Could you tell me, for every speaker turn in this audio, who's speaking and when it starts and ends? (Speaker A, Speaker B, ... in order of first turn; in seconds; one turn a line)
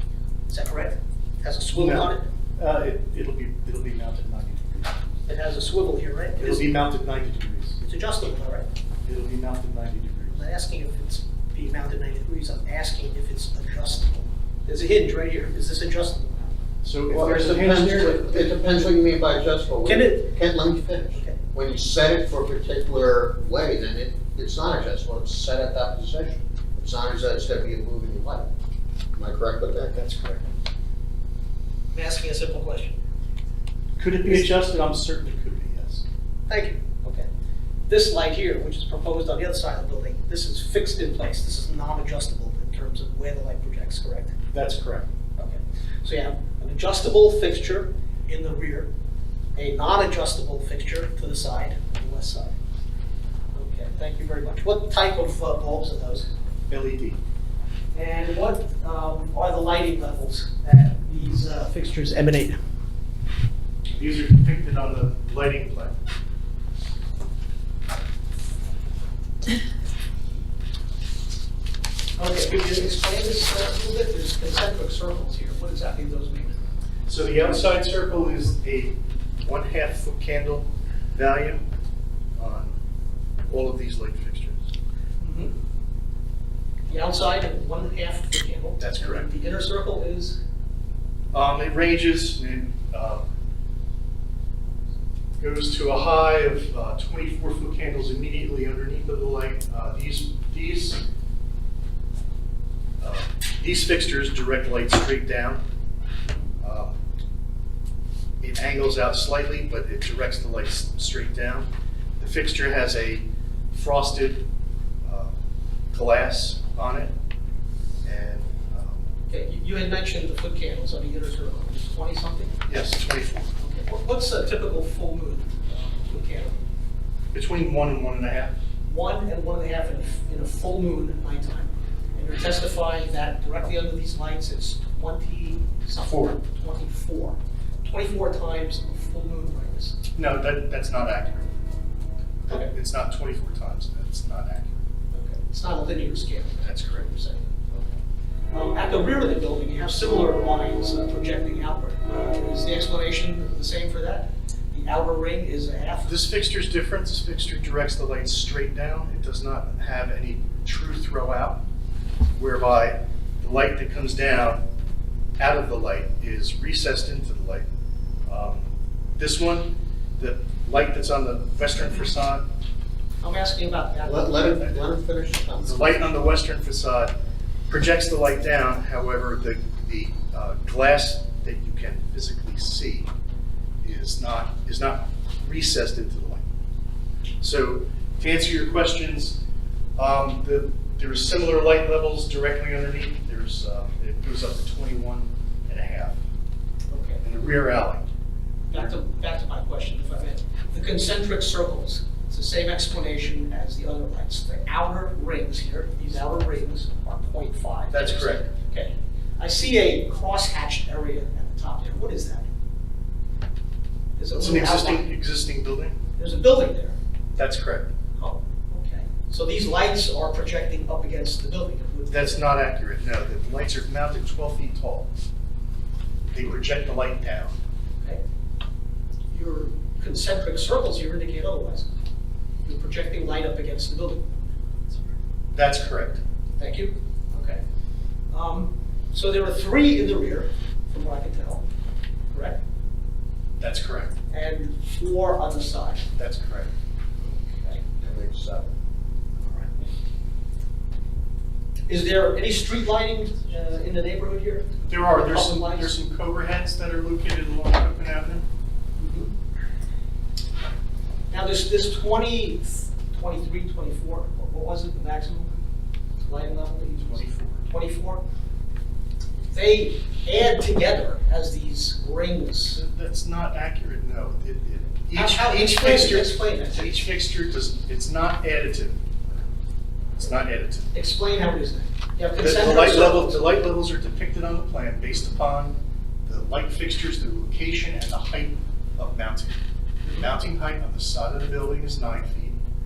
Speaker A: 0.5-2.2
Speaker B: 1.7-5.0
Speaker A: 5.3-6.7
Speaker B: 6.4-7.8
Speaker A: 7.8-8.7
Speaker B: 9.0-10.4
Speaker A: 10.3-16.5
Speaker B: 16.8-18.6
Speaker C: 17.1-28.5
Speaker A: 19.8-20.3
Speaker C: 29.1-30.0
Speaker B: 29.9-30.5
Speaker A: 31.9-33.0
Speaker B: 34.0-36.0
Speaker A: 36.5-37.3
Speaker A: 37.9-44.4
Speaker B: 44.5-45.1
Speaker A: 45.4-48.9
Speaker A: 49.5-52.5
Speaker A: 53.5-56.3
Speaker B: 56.7-57.2
Speaker A: 57.9-62.6
Speaker B: 64.0-66.0
Speaker A: 72.2-76.6
Speaker B: 77.1-81.6
Speaker B: 82.4-82.8
Speaker B: 83.5-84.6
Speaker A: 85.2-85.5
Speaker A: 86.9-90.4
Speaker B: 88.8-89.3
Speaker B: 91.3-93.2
Speaker B: 95.4-101.0
Speaker B: 103.0-105.6
Speaker B: 106.6-106.9
Speaker B: 108.4-114.4
Speaker B: 115.0-115.3
Speaker B: 115.9-117.1
Speaker B: 118.0-119.0
Speaker A: 119.3-122.5
Speaker B: 122.7-123.5
Speaker A: 123.6-126.6
Speaker B: 127.3-128.5
Speaker A: 128.9-140.0
Speaker B: 136.0-136.3
Speaker B: 140.1-141.5
Speaker B: 142.5-144.8
Speaker A: 145.1-147.8
Speaker B: 146.6-147.0
Speaker A: 148.5-156.2
Speaker B: 156.1-161.6
Speaker B: 162.3-164.6
Speaker B: 165.4-167.7
Speaker B: 168.3-168.7
Speaker B: 169.2-172.4
Speaker A: 173.2-174.7
Speaker C: 174.0-176.0
Speaker B: 175.6-177.1
Speaker B: 177.7-183.1
Speaker B: 183.8-186.4
Speaker B: 187.4-189.4
Speaker B: 190.0-196.2
Speaker A: 196.9-197.2
Speaker B: 197.2-198.0
Speaker A: 198.7-212.5
Speaker B: 207.9-208.5
Speaker A: 214.2-215.1
Speaker B: 214.4-216.0
Speaker A: 216.2-216.9
Speaker B: 217.3-217.9
Speaker A: 218.2-222.4
Speaker B: 222.1-225.1
Speaker B: 226.3-227.5
Speaker A: 229.3-231.9
Speaker A: 232.6-234.4
Speaker B: 235.5-236.2
Speaker A: 236.6-237.6
Speaker A: 238.3-241.6
Speaker A: 242.3-242.6
Speaker B: 243.6-244.1
Speaker A: 244.3-246.1
Speaker B: 246.2-246.7
Speaker A: 247.2-247.8
Speaker C: 248.0-248.7
Speaker A: 249.4-249.8
Speaker A: 251.9-255.9
Speaker B: 254.8-258.4
Speaker A: 259.0-259.3
Speaker A: 261.3-265.5
Speaker A: 266.2-268.2
Speaker B: 267.0-267.6
Speaker A: 269.4-272.8
Speaker B: 272.7-279.0
Speaker A: 275.1-277.1
Speaker B: 280.2-280.9
Speaker A: 280.9-283.4
Speaker B: 282.4-289.6
Speaker A: 290.0-290.3
Speaker B: 290.1-292.6